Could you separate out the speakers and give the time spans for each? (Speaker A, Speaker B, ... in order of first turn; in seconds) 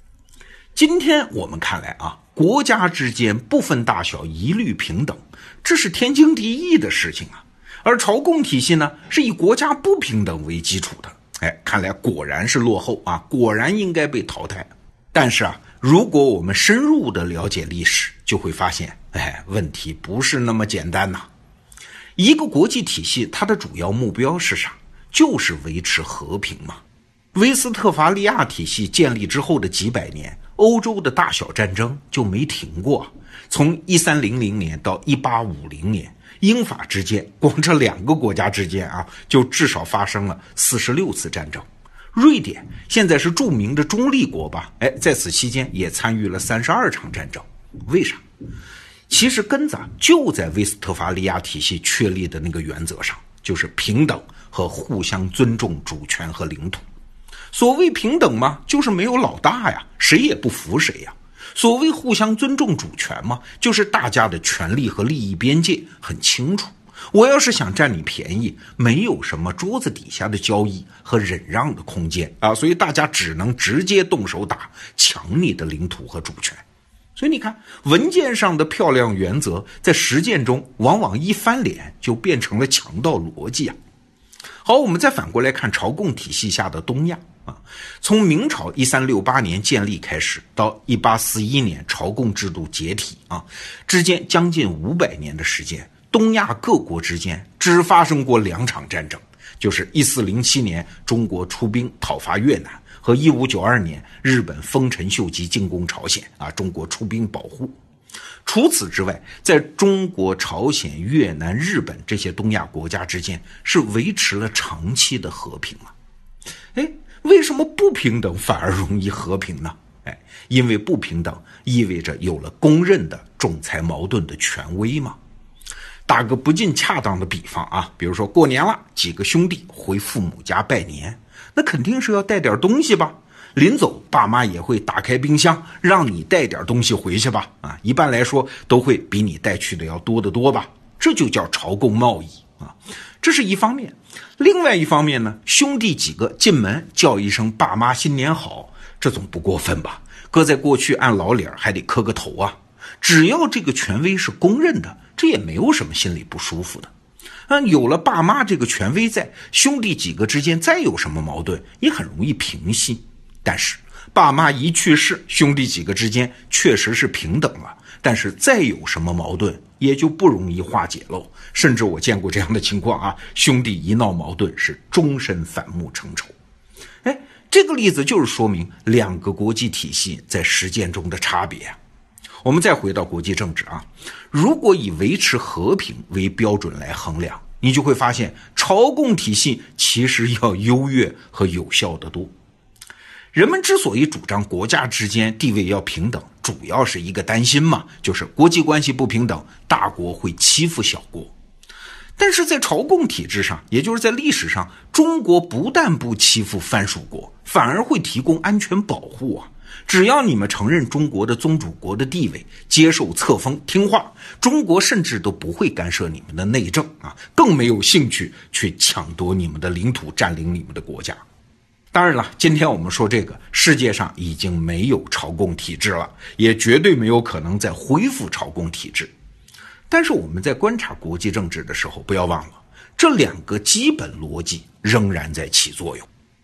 Speaker A: 0.8-21.3, 22.2-26.8, 27.3-48.2, 49.1-56.8, 57.5-76.6, 77.2-83.8, 84.6-107.7, 108.5-115.9, 116.8-125.2, 126.1-156.9, 157.5-176.3, 177.0-181.8, 182.4-192.3, 193.3-201.3, 202.2-221.2, 221.9-229.1, 229.9-236.1